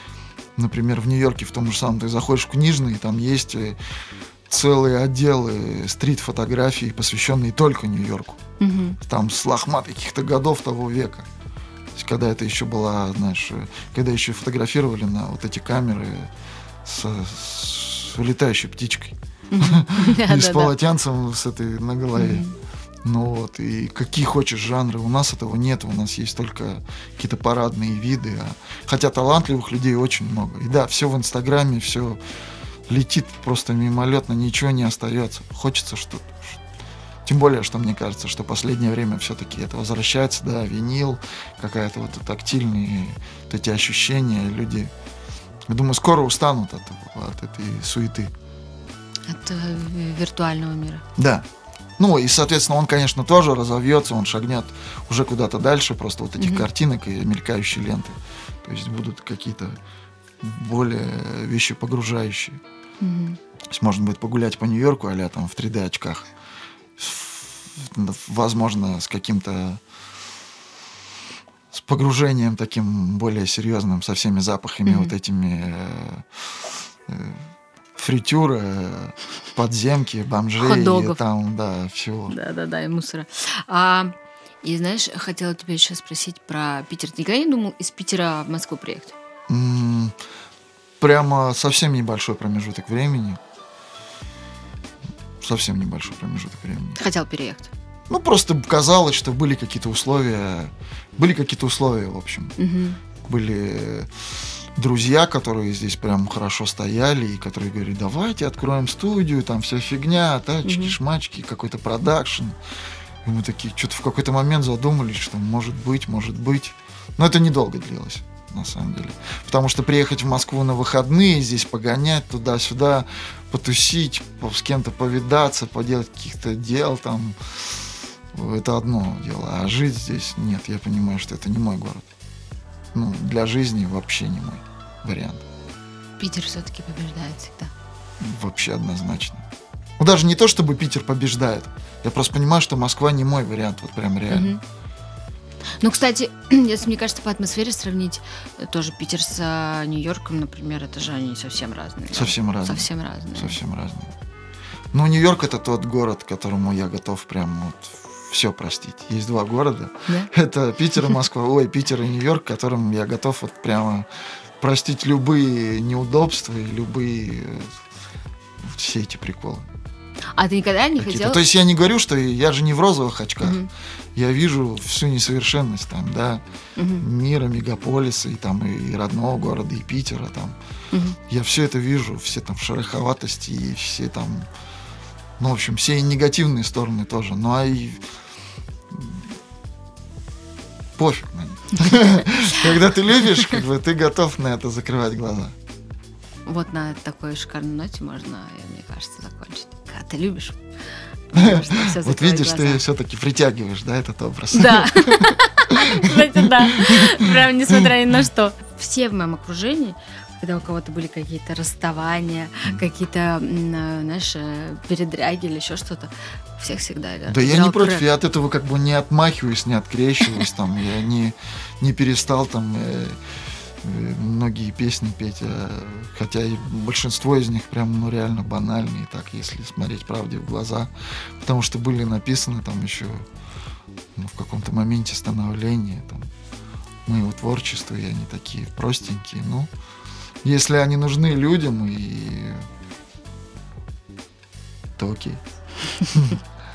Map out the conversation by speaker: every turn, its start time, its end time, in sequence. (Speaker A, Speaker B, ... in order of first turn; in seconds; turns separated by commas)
Speaker A: 0.6-3.8, Speaker A: 4.5-8.4, Speaker B: 8.6-9.0, Speaker A: 9.0-11.3, Speaker A: 11.9-16.3, Speaker A: 16.8-22.4, Speaker B: 19.5-20.7, Speaker B: 22.1-22.5, Speaker A: 23.0-32.2, Speaker A: 32.9-36.6, Speaker A: 37.2-44.9, Speaker A: 45.7-48.3, Speaker B: 49.3-51.0, Speaker A: 51.1-51.4, Speaker A: 52.0-59.8, Speaker B: 56.4-56.6, Speaker A: 60.4-62.6, Speaker B: 63.0-63.4, Speaker A: 63.7-66.3, Speaker A: 67.0-69.8, Speaker A: 71.7-77.4, Speaker B: 74.8-75.1, Speaker A: 78.0-82.3, Speaker B: 80.6-81.2, Speaker B: 82.3-89.1, Speaker A: 89.5-90.2, Speaker A: 91.0-93.4, Speaker A: 95.4-97.0, Speaker B: 97.0-97.7, Speaker A: 98.1-102.5, Speaker B: 102.6-103.0, Speaker A: 103.2-112.6, Speaker B: 110.6-111.0, Speaker A: 113.2-132.1, Speaker A: 132.9-135.4, Speaker B: 136.2-137.7, Speaker A: 138.2-139.4, Speaker A: 140.0-144.5, Speaker B: 144.3-144.6, Speaker B: 145.8-153.6, Speaker A: 152.1-154.1, Speaker A: 154.9-164.1, Speaker A: 164.6-167.8, Speaker A: 168.6-169.7, Speaker B: 170.3-171.4, Speaker A: 171.0-173.6, Speaker B: 173.4-173.7, Speaker A: 174.1-176.4, Speaker B: 176.8-177.0, Speaker A: 177.0-180.6, Speaker B: 180.9-181.2, Speaker A: 181.3-184.5, Speaker A: 185.4-188.0, Speaker A: 188.9-189.2, Speaker A: 190.9-195.6, Speaker B: 196.5-200.6, Speaker B: 201.3-202.8, Speaker A: 201.3-207.9, Speaker B: 204.5-218.1, Speaker A: 217.3-223.2, Speaker A: 223.8-233.2, Speaker A: 234.2-236.3, Speaker A: 237.1-239.7, Speaker A: 240.4-242.7, Speaker A: 245.0-245.4, Speaker B: 245.8-246.3, Speaker A: 246.1-246.4